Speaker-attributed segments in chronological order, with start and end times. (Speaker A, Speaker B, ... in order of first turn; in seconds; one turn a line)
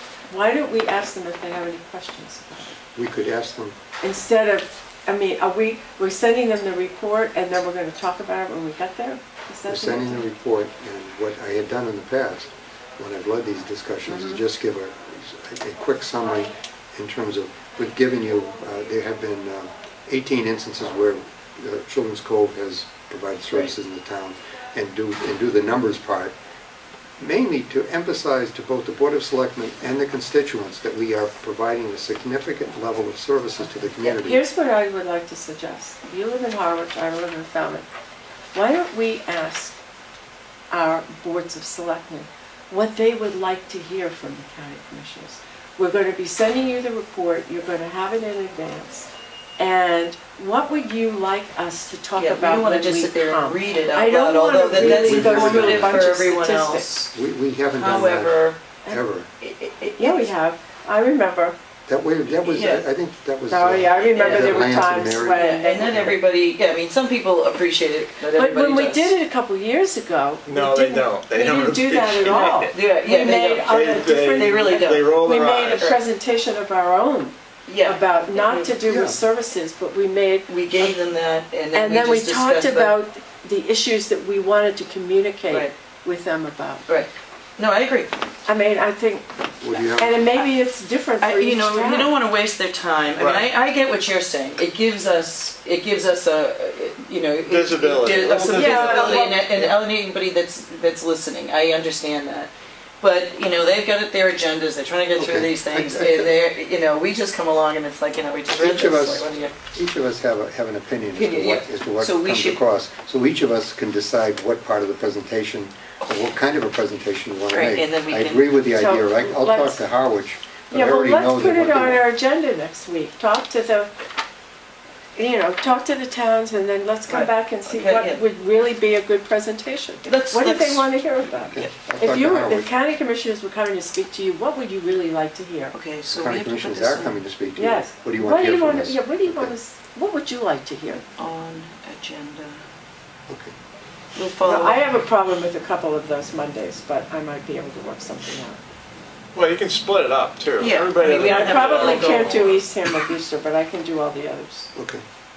Speaker A: 0.3-2.8
Speaker B: 2.9-3.8
Speaker A: 4.0-10.2
Speaker B: 9.7-26.3
Speaker C: 14.1-14.4
Speaker B: 27.2-34.5
Speaker A: 34.0-37.9
Speaker A: 38.5-39.8
Speaker A: 40.7-56.9
Speaker C: 52.2-57.1
Speaker B: 54.7-56.0
Speaker B: 57.1-59.3
Speaker C: 57.7-58.6
Speaker C: 59.4-60.3
Speaker A: 60.0-61.6
Speaker B: 61.9-66.2
Speaker C: 62.3-62.9
Speaker A: 63.5-66.2
Speaker C: 64.1-69.1
Speaker A: 68.3-81.0
Speaker D: 70.5-72.8
Speaker C: 72.3-75.2
Speaker D: 73.5-75.9
Speaker C: 77.7-78.8
Speaker B: 78.8-79.2
Speaker C: 80.5-83.0
Speaker A: 81.7-86.9
Speaker C: 86.9-88.2
Speaker A: 88.5-92.1
Speaker B: 89.6-90.2
Speaker C: 91.2-109.5
Speaker D: 93.2-93.5
Speaker D: 97.5-99.8
Speaker A: 98.3-99.4
Speaker B: 105.2-106.3
Speaker B: 108.5-122.0
Speaker C: 111.2-112.6
Speaker C: 117.5-118.5
Speaker A: 118.7-119.8
Speaker A: 120.7-123.9
Speaker A: 125.2-135.7
Speaker C: 127.1-128.2
Speaker C: 130.0-131.7
Speaker B: 131.5-132.7
Speaker C: 135.7-137.2
Speaker B: 136.1-139.5
Speaker A: 137.6-141.1
Speaker C: 141.2-142.6
Speaker B: 143.3-143.5
Speaker C: 144.2-144.9
Speaker A: 144.4-148.6
Speaker D: 149.3-152.6
Speaker C: 150.6-152.5
Speaker A: 151.2-154.7
Speaker B: 154.7-155.0